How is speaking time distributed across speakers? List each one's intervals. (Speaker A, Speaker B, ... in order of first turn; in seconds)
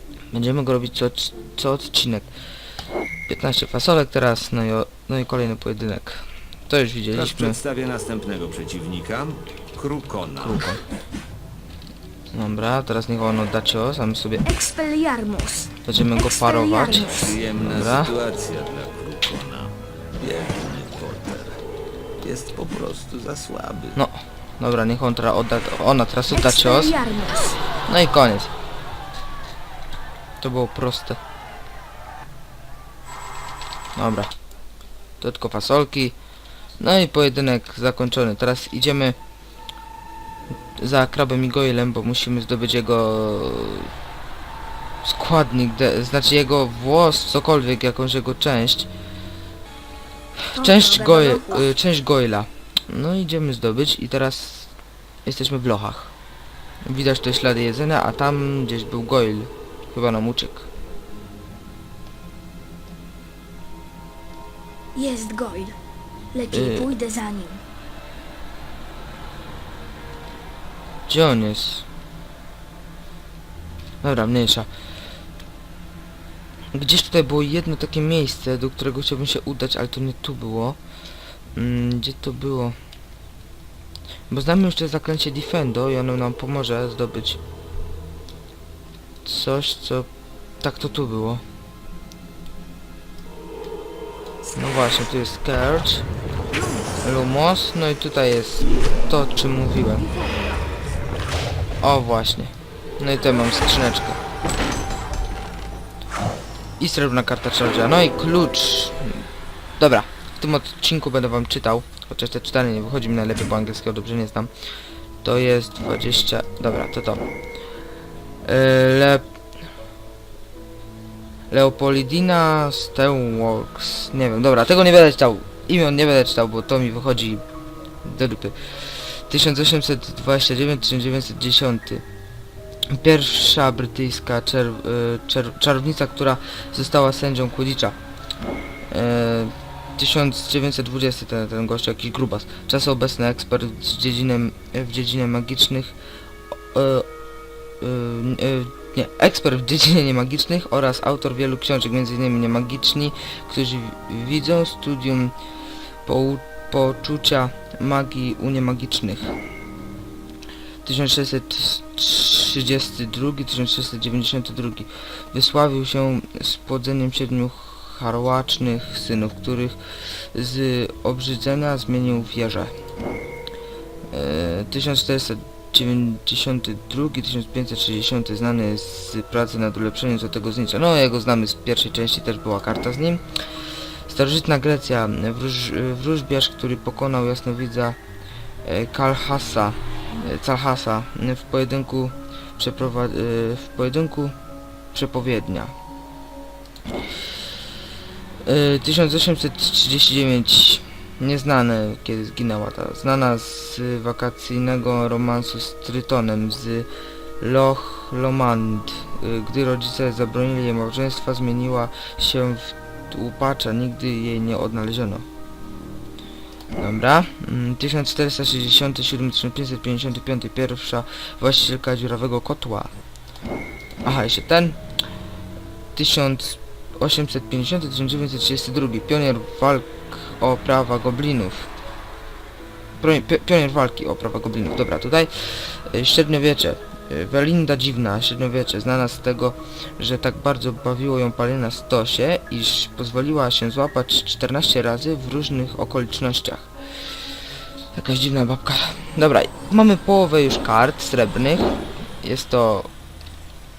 Speaker A: 0.3-2.3, 3.3-7.6, 10.4-10.8, 12.3-14.4, 15.8-18.1, 23.9-27.0, 27.9-28.5, 30.4-31.2, 34.0-34.3, 35.2-36.1, 36.8-39.2, 40.8-43.9, 45.0-48.9, 50.5-54.7, 55.2-56.1, 56.9-60.7, 66.5-66.9, 71.1-71.8, 74.0-74.7, 76.7-80.8, 81.5-82.8, 84.3-87.4, 89.2-90.1, 90.6-91.4, 94.5-96.0, 97.0-100.1, 101.8-104.2, 106.8-109.3, 109.8-114.5, 115.2-117.2, 118.4-119.2, 121.5-127.4, 128.0-132.0, 132.9-138.0, 138.9-145.9, 146.7-147.1, 147.8-155.3, 156.0-159.3, 160.8-169.8, 170.3-172.7, 174.1-183.2, 184.1-188.0, 188.6-194.3, 194.9-195.7, 198.4-206.9, 207.4-215.2, 216.8-222.9, 224.0-224.8, 225.9-231.7, 233.0-246.7, 247.9-252.9
Speaker B: 7.1-10.7, 17.0-21.6, 22.2-24.0
Speaker C: 14.4-17.4, 26.3-27.6, 50.5-51.6, 65.0-65.8, 66.3-67.6